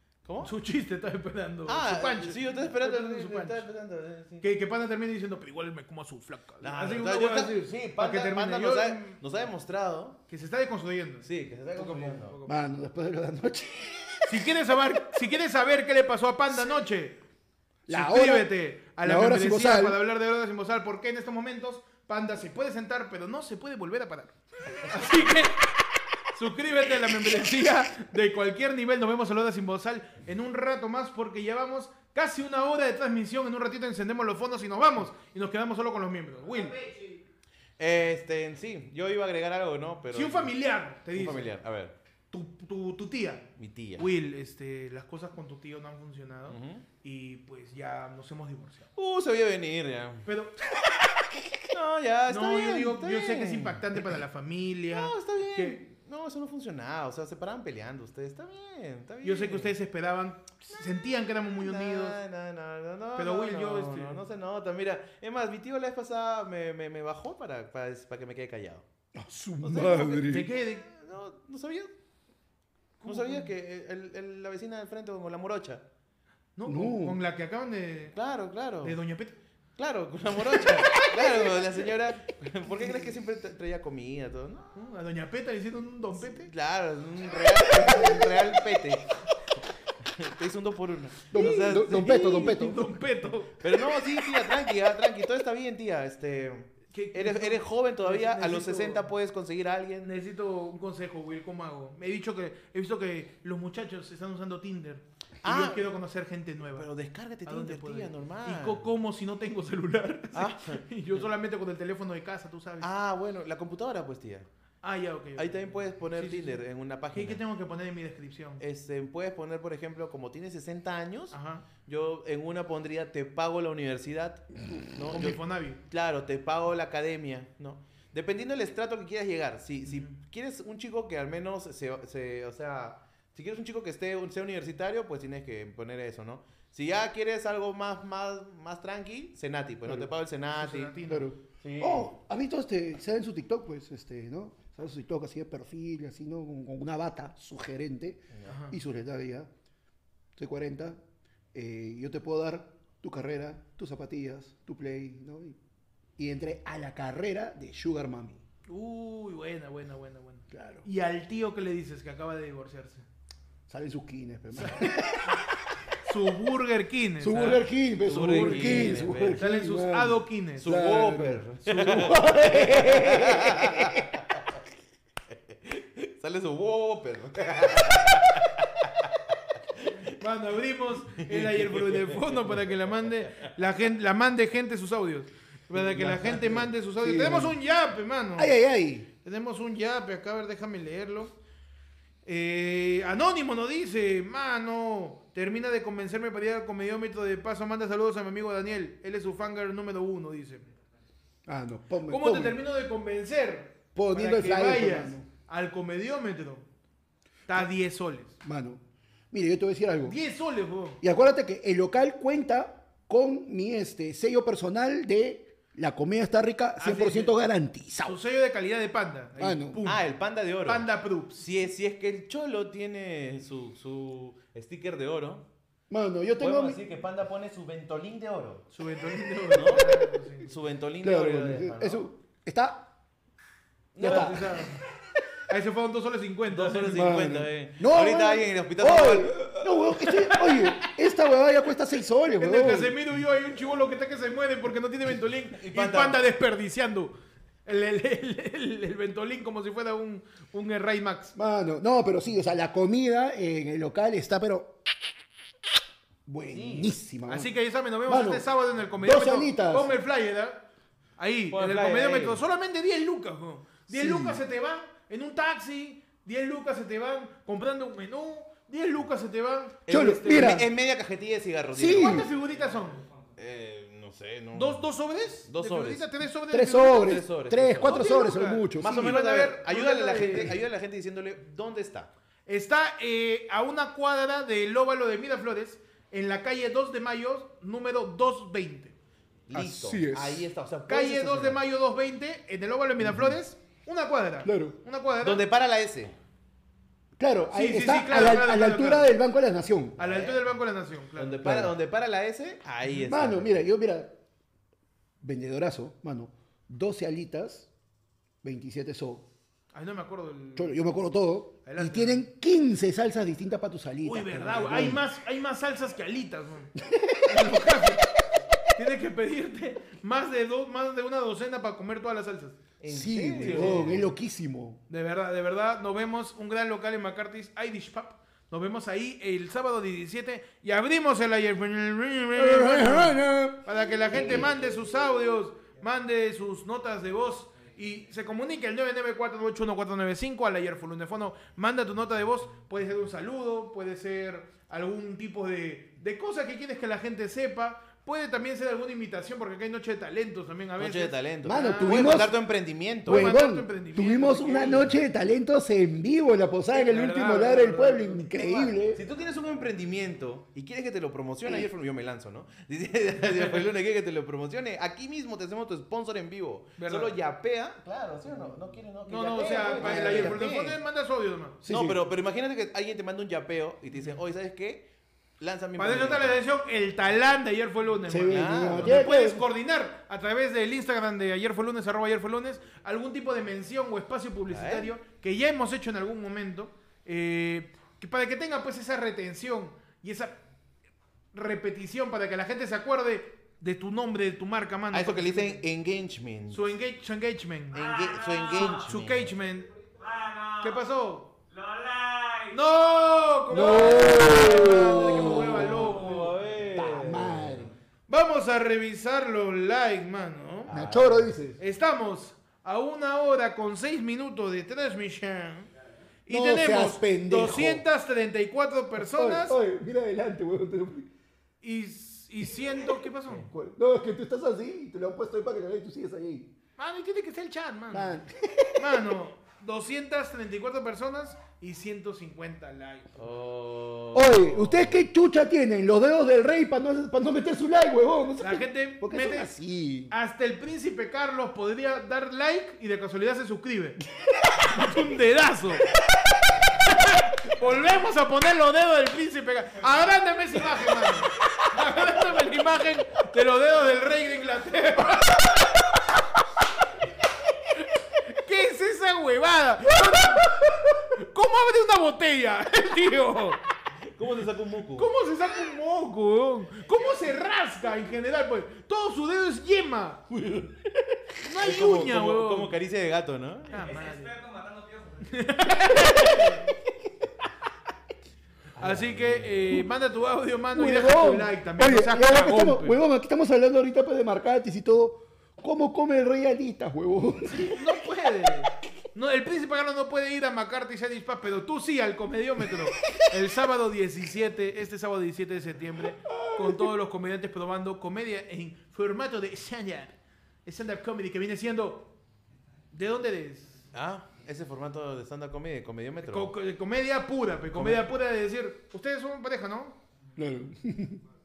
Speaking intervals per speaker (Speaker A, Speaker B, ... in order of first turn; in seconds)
Speaker A: 0.2-0.5, 1.6-4.4, 6.6-10.2, 11.2-12.4, 37.8-40.5, 41.1-41.9, 43.6-44.1, 46.5-46.8, 49.0-50.3, 51.7-53.8, 54.9-59.7, 61.6-68.8, 69.6-71.9, 73.0-75.8, 78.1-79.0, 79.8-84.8, 86.2-89.1, 90.0-92.3, 93.6-100.1, 105.4-105.9, 106.7-108.8, 110.3-110.8, 112.8-114.5, 115.4-117.4, 118.6-140.9, 141.6-142.1, 168.0-169.4, 170.6-174.4, 175.5-179.1, 181.3-182.3, 219.8-225.4, 226.4-228.7, 229.5-232.0, 233.9-234.5, 236.5-239.5, 245.5-246.2, 256.5-256.9, 261.5-262.4, 269.9-272.3, 273.4-274.8, 275.5-276.1, 276.9-278.0, 278.8-282.1, 289.5-291.6, 295.2-296.1, 300.0-300.4, 301.1-303.5, 322.8-324.1, 350.8-353.3, 358.9-370.8, 371.7-374.9, 375.4-376.4, 378.2-379.0, 384.5-384.9, 394.9-396.7, 397.7-399.3, 404.2-407.6, 410.7-411.3, 433.1-435.0, 464.1-465.1, 470.4-470.7, 471.6-473.7, 478.8-479.6, 503.9-506.5, 507.7-508.1
Speaker B: 0.4-3.6, 4.4-9.2, 10.3-12.6, 14.2-17.2, 17.9-25.6, 26.3-36.8, 40.1-41.5, 42.3-48.9, 50.2-50.5, 52.3-55.8, 59.2-62.2, 63.1-64.2, 70.2-70.8, 73.0-73.5, 76.5-78.2, 78.8-79.3, 84.7-86.5, 91.3-93.6, 96.9-99.1, 100.0-106.9, 107.4-112.9, 114.8-118.6, 121.3-121.7, 125.1-125.8, 129.9-130.1, 140.5-141.3, 148.4-148.8, 158.7-163.0, 164.6-165.0, 166.0-170.7, 171.8-172.1, 180.2-188.5, 189.2-191.3, 192.2-200.7, 202.1-206.6, 207.5-208.4, 210.1-211.0, 216.8-217.4, 218.0-220.1, 220.6-221.5, 228.7-230.5, 234.0-234.8, 235.5-237.1, 240.1-240.8, 242.4-247.1, 247.7-251.3, 257.3-260.6, 261.2-270.6, 271.9-273.0, 274.5-277.2, 277.8-280.6, 282.5-288.9, 290.9-295.4, 297.5-299.1, 300.0-301.6, 309.7-310.8, 311.6-312.3, 314.0-316.7, 317.2-318.1, 318.7-322.6, 323.4-323.9, 324.9-352.2, 353.1-354.9, 356.7-358.7, 363.2-363.6, 366.8-367.1, 369.1-371.6, 375.8-390.4, 391.3-395.6, 396.5-397.8, 398.5-399.7, 400.6-401.3, 402.5-406.3, 408.1-410.7, 411.6-415.7, 416.3-419.6, 421.6-423.5, 426.8-428.1, 428.8-433.1, 438.4-439.5, 440.1-444.0, 444.6-445.9, 446.7-455.5, 458.2-463.6, 465.0-470.3, 471.4-472.7, 473.7-474.3, 475.2-476.6, 478.8-483.0, 487.5-502.1, 502.9-503.9, 506.3-510.0
Speaker C: 12.4-14.3, 17.9-20.0, 69.1-70.5, 76.6-77.2, 91.3-92.8, 141.1-149.5, 150.3-151.0, 151.5-155.6, 156.2-158.4, 160.5-160.8, 163.7-165.5, 167.2-174.1, 186.0-187.6, 188.3-189.1, 201.4-202.6, 203.9-205.2, 208.4-210.2, 211.0-218.2, 219.4-219.8, 225.9-226.8, 231.0-232.9, 234.0-234.6, 236.9-243.0, 251.3-254.8, 256.2-257.5, 258.1-258.4, 259.0-259.9, 263.9-264.4, 269.9-270.7, 271.7-272.3, 276.5-279.1, 289.5-290.5, 293.0-293.4, 294.4-294.8, 297.2-300.0, 301.4-301.7, 303.1-304.1, 305.2-307.7, 308.4-309.3, 310.6-315.0, 316.8-317.2, 322.9-324.8, 332.3-334.6, 351.4-352.4, 353.0-359.0, 369.6-370.4, 371.6-372.0, 378.1-379.4, 403.5-406.2, 406.7-407.7, 410.7-411.6, 416.3-417.8, 419.0-421.1, 423.4-426.5, 427.9-429.0, 434.1-440.1, 480.7-487.9, 496.3-496.8, 510.4-511.2
Speaker D: 397.7-398.9, 399.9-400.8, 401.5-402.6, 405.7-407.2, 473.7-475.3, 475.9-476.3